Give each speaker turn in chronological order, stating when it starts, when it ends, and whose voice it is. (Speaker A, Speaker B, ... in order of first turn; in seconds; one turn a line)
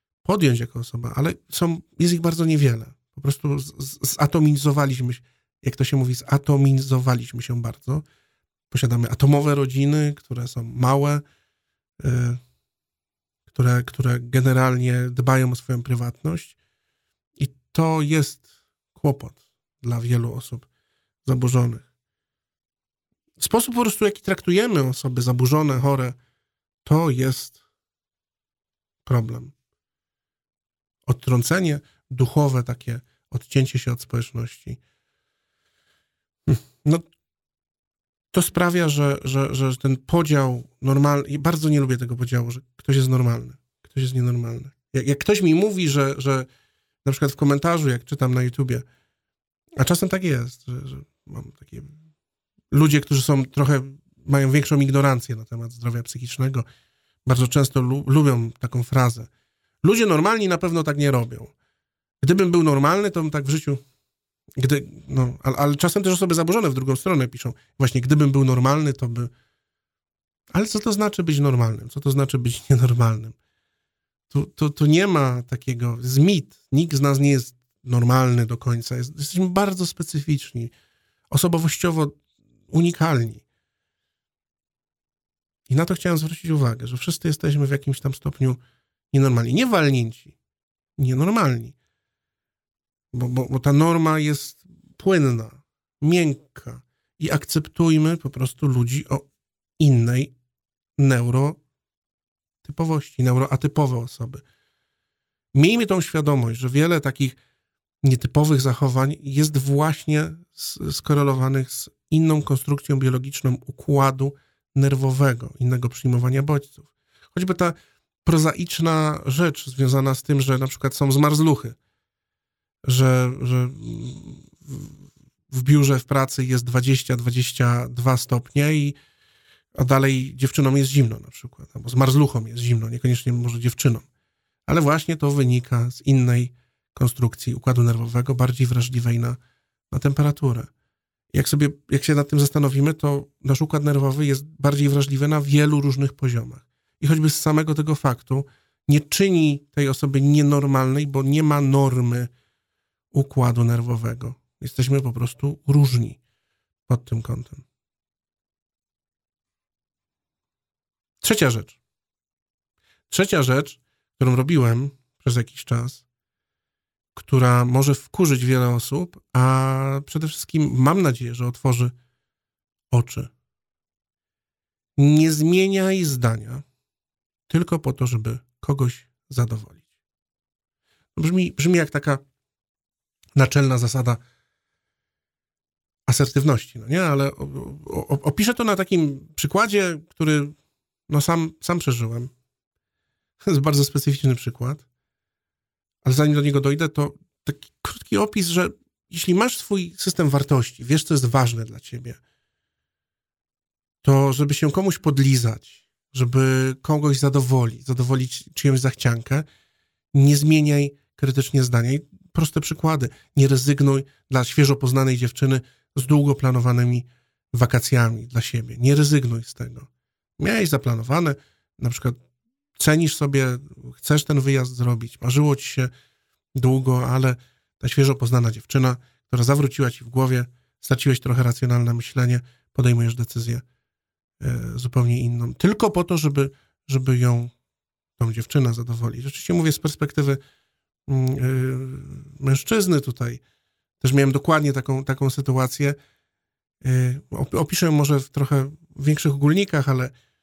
Speaker A: 0.2-8.0
Speaker A: 8.7-11.2
Speaker A: 12.0-12.4
Speaker A: 13.5-16.6
Speaker A: 17.4-20.7
Speaker A: 21.2-21.9
Speaker A: 23.4-26.2
Speaker A: 26.8-27.6
Speaker A: 29.1-29.5
Speaker A: 31.1-34.8
Speaker A: 36.5-37.0
Speaker A: 38.3-46.5
Speaker A: 47.0-48.8
Speaker A: 49.8-51.9
Speaker A: 52.7-56.6
Speaker A: 57.2-59.3
Speaker A: 59.8-61.5
Speaker A: 62.2-63.8
Speaker A: 64.5-69.3
Speaker A: 70.5-73.3
Speaker A: 74.3-80.7
Speaker A: 81.3-83.4
Speaker A: 85.7-88.6
Speaker A: 89.1-90.3
Speaker A: 91.0-91.8
Speaker A: 93.1-99.3
Speaker A: 99.8-100.3
Speaker A: 101.0-101.6
Speaker A: 102.6-104.4
Speaker A: 105.5-107.4
Speaker A: 108.0-121.8
Speaker A: 122.8-129.0
Speaker A: 129.8-134.1
Speaker A: 134.7-139.4
Speaker A: 139.9-140.7
Speaker A: 141.3-152.3
Speaker A: 153.1-156.2
Speaker A: 156.9-157.6
Speaker A: 161.2-161.8
Speaker A: 163.1-166.0
Speaker A: 167.1-171.9
Speaker A: 172.9-173.3
Speaker A: 175.0-176.6
Speaker A: 177.5-179.8
Speaker A: 181.2-182.2
Speaker A: 183.3-184.2
Speaker A: 186.1-190.5
Speaker A: 191.1-192.3
Speaker A: 193.4-194.8
Speaker A: 196.0-202.2
Speaker A: 204.0-209.4
Speaker A: 210.1-222.2
Speaker A: 222.8-225.9
Speaker A: 226.6-233.6
Speaker A: 234.4-237.5
Speaker A: 238.2-240.4
Speaker A: 241.1-243.4
Speaker A: 244.0-246.0
Speaker A: 246.8-250.1